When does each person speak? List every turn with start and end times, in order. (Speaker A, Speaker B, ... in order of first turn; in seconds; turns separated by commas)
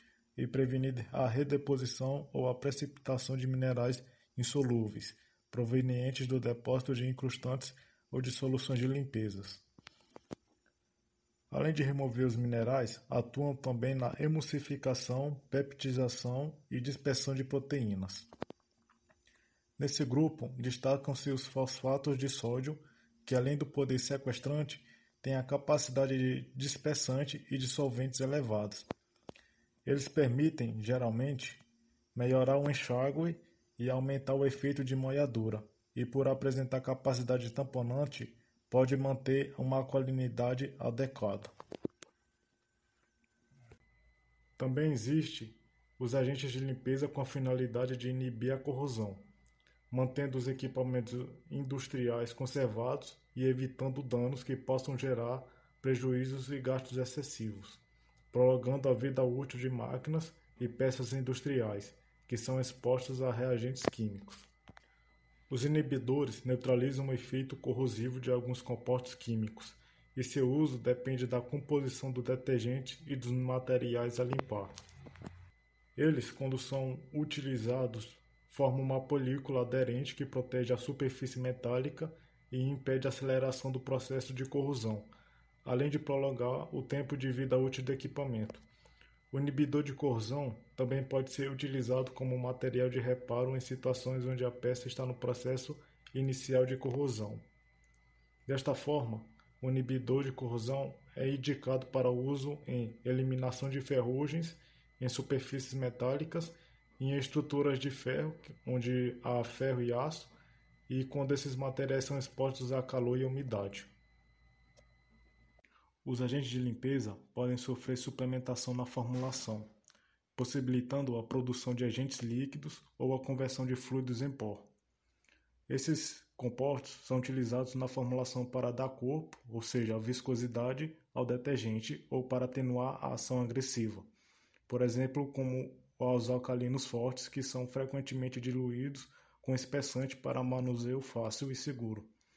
Speaker A: 0.4-9.6, Speaker A: 11.5-18.3, Speaker A: 19.8-28.9, Speaker A: 29.9-31.6, Speaker A: 32.1-41.5, Speaker A: 44.6-49.3, Speaker A: 49.9-64.5, Speaker A: 65.5-74.8, Speaker A: 76.0-85.1, Speaker A: 85.7-88.7, Speaker A: 89.3-97.5, Speaker A: 98.5-110.3, Speaker A: 110.9-113.9, Speaker A: 116.0-119.7, Speaker A: 120.3-124.7, Speaker A: 125.7-134.1, Speaker A: 134.7-142.1